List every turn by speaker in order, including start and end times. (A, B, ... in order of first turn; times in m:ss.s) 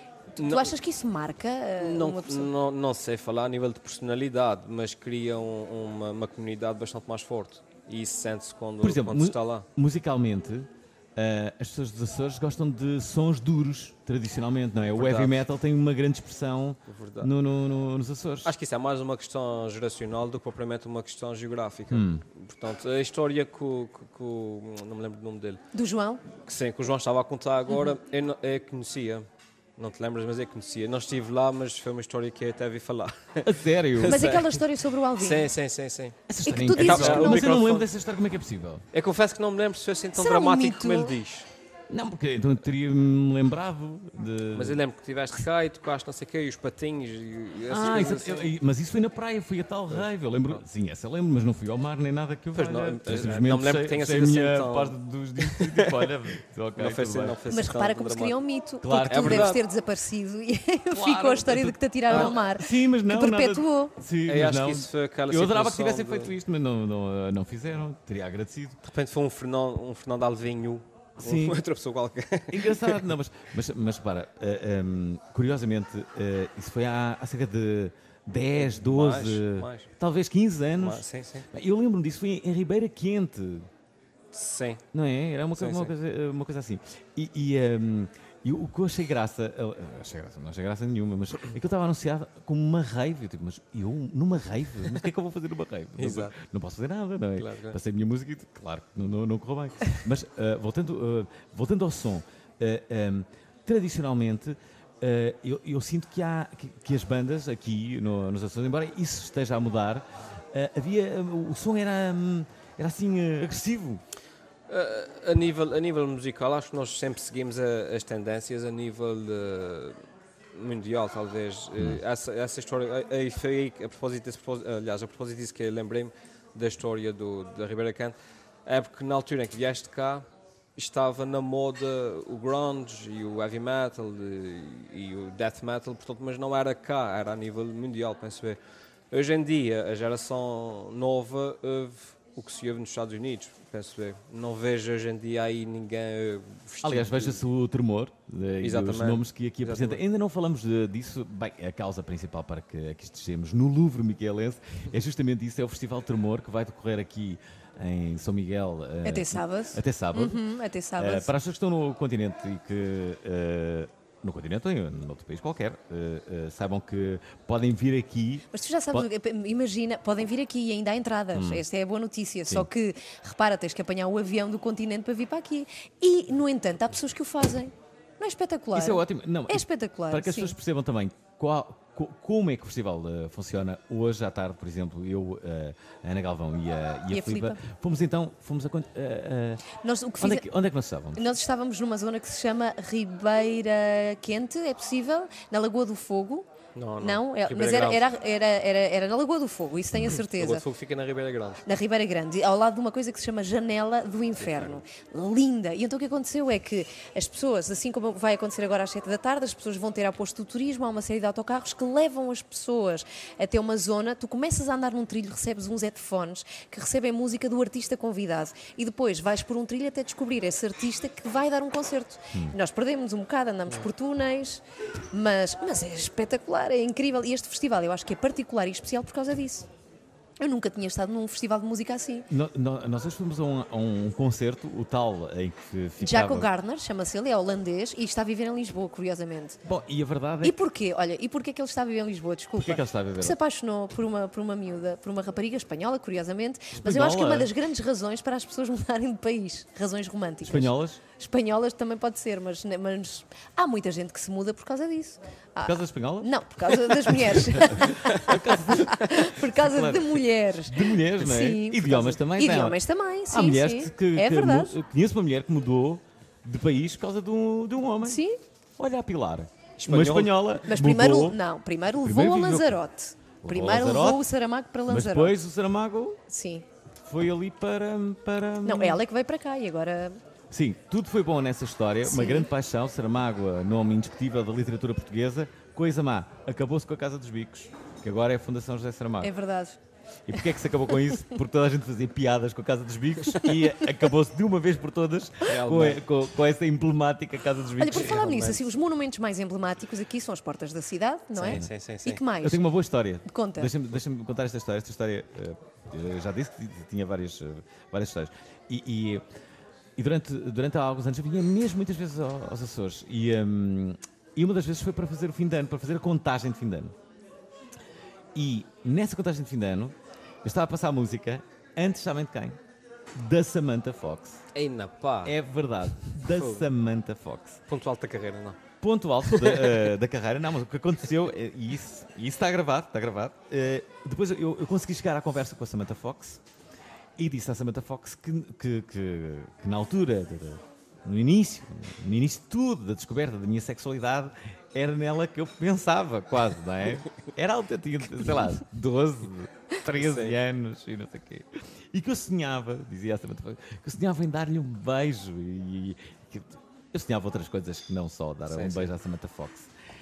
0:00.4-0:02.5 A
0:00.4-0:00.7 B
0:01.8-0:09.6 B
0:08.8-0:18.5 C
0:14.9-0:15.4 B
0:16.9-0:17.3 B
0:18.4-0:25.6 B
0:21.9-0:22.2 C
0:25.7-0:26.2 A
0:26.4-0:29.2 B
0:29.8-0:34.6 B
0:33.4-0:34.2 C
0:34.0-0:35.5 A
0:35.2-0:36.2 B
0:36.3-0:38.8 C
0:36.4-0:37.5 A
0:36.7-0:37.9 B
0:38.9-0:41.5 B
0:40.2-0:41.2 A
0:41.9-0:44.8 C
0:44.6-0:48.5 B
0:47.7-0:57.4 C
0:49.9-0:50.6 B
0:52.6-0:56.1 B
0:56.8-0:58.4 B
0:57.5-1:04.0 A
0:58.8-0:59.5 C
0:59.0-0:59.6 B
1:00.9-1:08.8 C
1:02.1-1:02.4 B
1:04.3-1:06.3 B
1:08.8-1:13.0 B
1:11.2-1:11.6 C
1:12.5-1:23.7 C
1:18.6-1:19.9 B
1:20.8-1:21.5 B
1:24.3-1:24.8 B
1:24.9-1:54.0 C
1:25.6-1:25.9 B
1:36.0-1:36.4 B
1:37.4-1:37.8 B
1:54.7-2:00.0 B
2:00.5-2:08.2 B
2:08.7-2:10.2 B
2:10.8-2:18.6 B
2:19.1-2:27.4 B
2:26.8-2:40.4 C
2:28.6-2:30.0 B
2:39.0-2:41.3 A
2:41.0-2:49.1 C
2:48.5-3:00.6 A
2:51.4-2:51.6 C
2:58.7-3:09.6 C
3:07.1-3:07.6 A
3:09.8-3:10.5 A
3:10.2-3:11.2 C
3:11.1-3:20.6 A
3:16.8-3:18.0 B
3:20.2-3:21.6 B
3:21.6-3:49.7 A
3:24.4-3:24.8 B
3:50.4-3:52.3 A
3:52.3-3:56.5 C
3:56.0-3:59.6 A
3:59.6-4:00.6 C
4:00.4-4:24.8 A
4:02.6-4:03.4 C
4:06.8-4:07.5 C
4:10.5-4:11.0 C
4:15.6-4:22.8 C
4:23.3-4:28.2 C
4:28.0-4:28.4 A
4:28.8-4:31.4 C
4:29.8-4:30.4 B
4:30.7-4:35.4 A
4:32.0-4:32.8 C
4:33.4-4:34.2 C
4:34.9-4:36.2 C
4:36.3-4:36.7 A
4:37.0-4:39.0 C
4:38.6-4:40.2 A
4:40.5-4:49.3 C
4:42.0-4:42.5 A
4:49.2-4:49.8 A
4:50.3-4:58.4 C
4:55.5-4:56.0 B
4:57.8-5:02.6 A
4:57.9-4:58.7 B
5:01.4-5:02.2 B
5:02.4-5:09.2 C
5:03.3-5:03.7 A
5:10.0-5:17.0 C
5:18.4-5:22.6 C
5:23.2-5:24.4 C
5:24.6-5:25.4 B
5:25.2-5:27.6 C
5:26.3-5:26.7 B
5:27.7-5:28.6 B
5:28.8-5:36.4 C
5:29.3-5:29.9 B
5:37.2-5:59.7 C
5:49.9-5:50.4 B
5:58.5-5:58.9 B